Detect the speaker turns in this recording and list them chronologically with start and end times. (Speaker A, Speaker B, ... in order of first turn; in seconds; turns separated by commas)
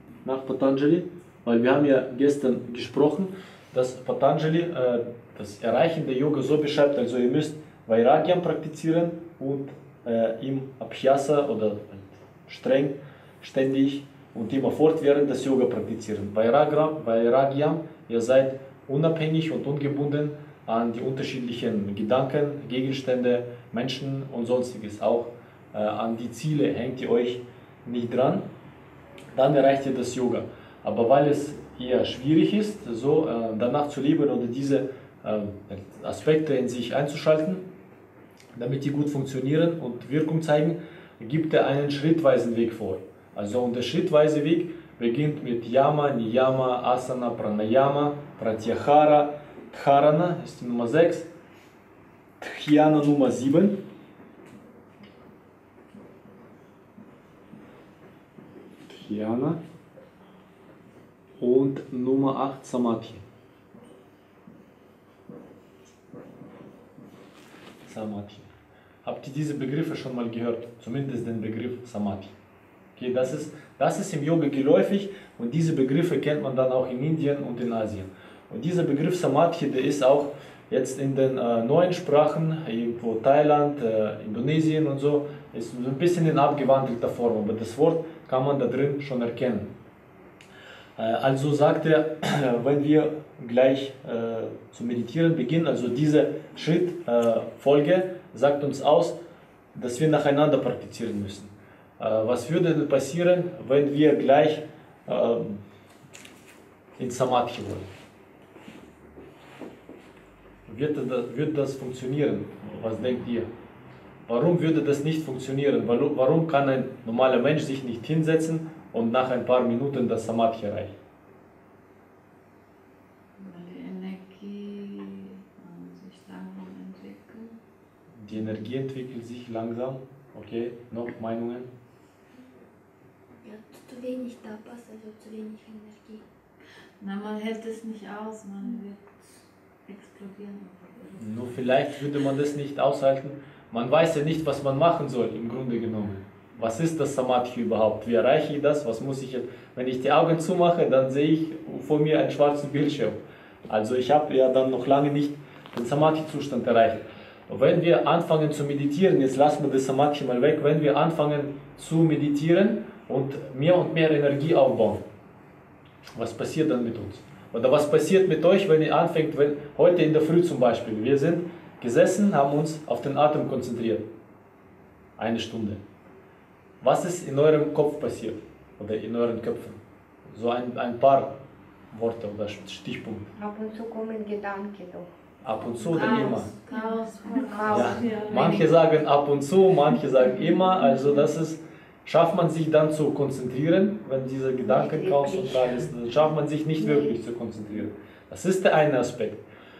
Speaker A: 0.2-28.5, Speaker A: 29.4-37.6, Speaker A: 38.6-51.3, Speaker A: 52.4-53.8, Speaker A: 58.9-59.6, Speaker A: 61.4-63.2, Speaker A: 67.8-68.5, Speaker A: 69.0-72.3, Speaker A: 73.0-89.7, Speaker A: 91.0-99.2, Speaker A: 99.8-105.6, Speaker A: 107.0-107.9, Speaker A: 110.7-113.5, Speaker A: 114.3-120.9, Speaker B: 123.4-127.6, Speaker A: 128.2-131.7, Speaker C: 133.4-136.2, Speaker B: 137.0-139.3, Speaker B: 139.9-141.2, Speaker A: 141.2-165.0, Speaker A: 166.2-174.1, Speaker A: 175.2-175.8, Speaker A: 176.8-181.4, Speaker A: 181.9-183.3, Speaker D: 183.3-185.1, Speaker A: 185.4-186.5, Speaker B: 185.8-188.7, Speaker D: 186.0-186.4, Speaker C: 186.7-187.5, Speaker D: 187.2-188.6, Speaker A: 187.7-199.4, Speaker D: 194.6-195.9, Speaker D: 196.8-197.2